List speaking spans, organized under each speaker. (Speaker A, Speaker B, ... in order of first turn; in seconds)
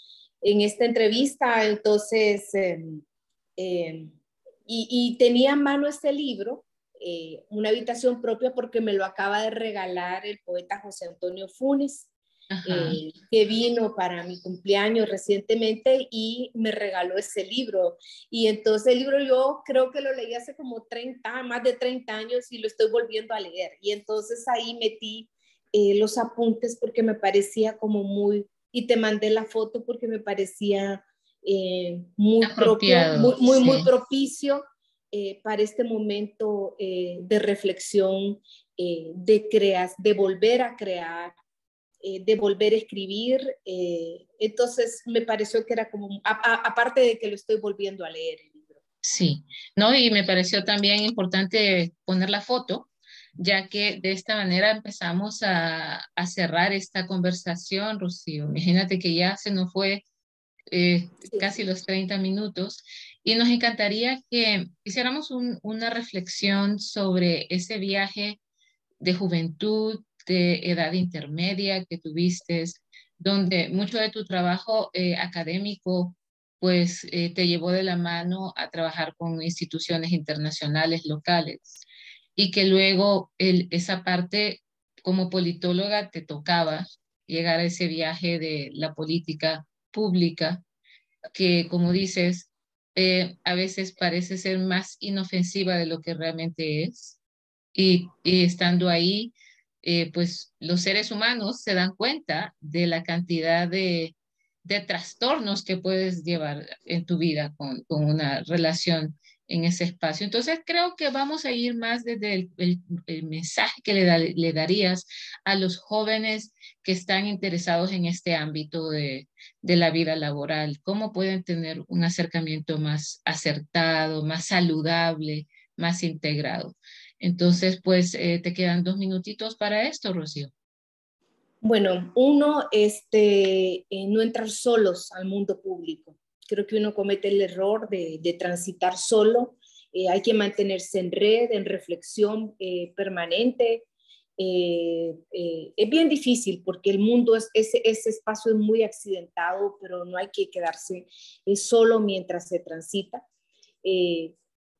Speaker A: 0.4-3.0, 3.6-4.2, 4.7-12.1, 12.6-41.3, 42.0-48.8, 131.6-143.8, 144.4-153.2, 153.8-154.3
Speaker B: 12.5-13.0, 32.4-33.9, 49.0-60.0, 60.7-68.4, 69.0-81.8, 82.4-90.6, 91.3-97.2, 97.7-130.5